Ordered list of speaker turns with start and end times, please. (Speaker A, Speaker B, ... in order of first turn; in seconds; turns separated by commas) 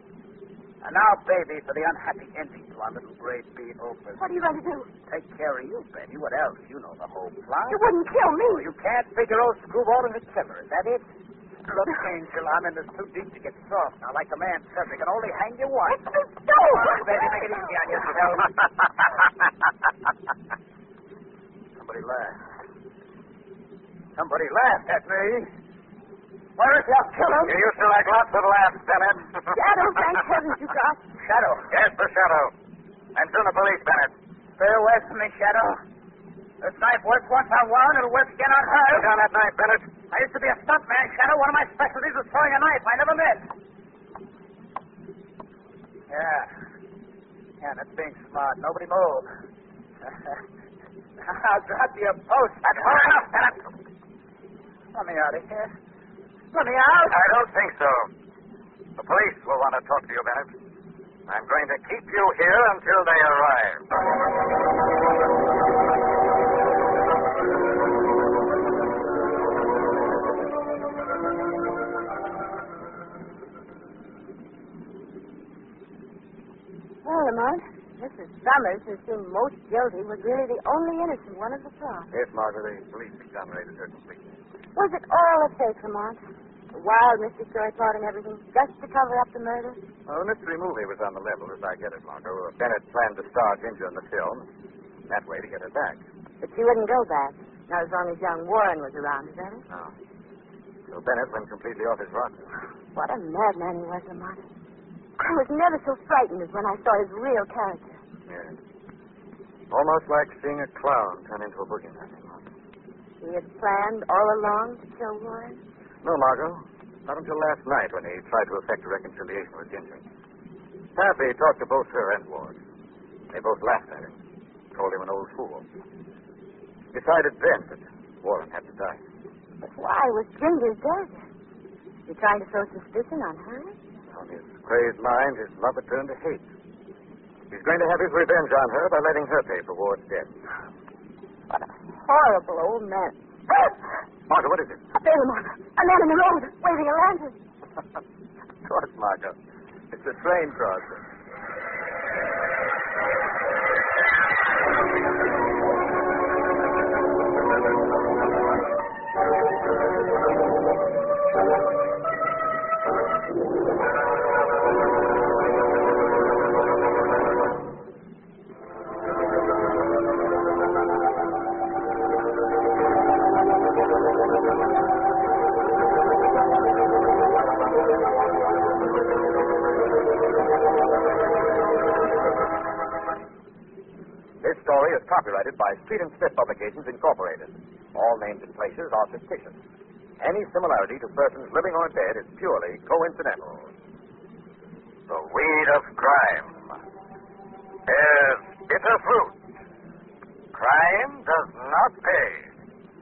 Speaker A: 0.8-4.2, Speaker B: 4.2-4.9, Speaker A: 5.1-7.8, Speaker B: 7.7-8.7, Speaker A: 8.5-11.1, Speaker A: 11.7-16.1, Speaker B: 15.9-17.3, Speaker A: 16.7-18.7, Speaker A: 21.8-22.4, Speaker A: 24.2-25.5, Speaker A: 26.6-27.6, Speaker C: 27.4-29.6, Speaker B: 29.5-31.0, Speaker A: 31.2-31.7, Speaker C: 31.7-32.5, Speaker C: 33.1-34.1, Speaker A: 34.6-35.8, Speaker A: 36.6-39.1, Speaker C: 38.9-39.9, Speaker A: 40.1-43.5, Speaker A: 46.1-46.5, Speaker A: 47.6-49.3, Speaker A: 51.2-53.6, Speaker A: 54.9-55.7, Speaker A: 56.5-57.2, Speaker C: 57.1-58.1, Speaker C: 59.0-60.5, Speaker C: 61.3-63.8, Speaker B: 77.0-82.1, Speaker C: 82.1-84.3, Speaker B: 84.8-86.2, Speaker B: 86.7-89.8, Speaker C: 90.1-94.5, Speaker C: 95.1-96.0, Speaker B: 96.4-99.7, Speaker C: 100.9-102.5, Speaker B: 102.9-104.5, Speaker B: 105.2-108.0, Speaker C: 108.3-108.6, Speaker C: 109.7-112.5, Speaker B: 113.2-115.6, Speaker C: 116.0-120.0, Speaker C: 121.0-122.6, Speaker C: 123.3-124.2, Speaker C: 124.7-125.7, Speaker C: 126.9-129.0, Speaker B: 129.6-131.2, Speaker B: 132.1-133.8, Speaker C: 134.1-136.5, Speaker C: 137.5-140.3, Speaker B: 141.5-143.7, Speaker C: 144.3-144.8, Speaker B: 144.9-147.4, Speaker C: 148.7-149.3, Speaker C: 149.9-151.0, Speaker C: 184.4-189.6, Speaker C: 190.2-193.7, Speaker C: 195.1-196.8, Speaker C: 197.9-199.4, Speaker C: 200.5-202.5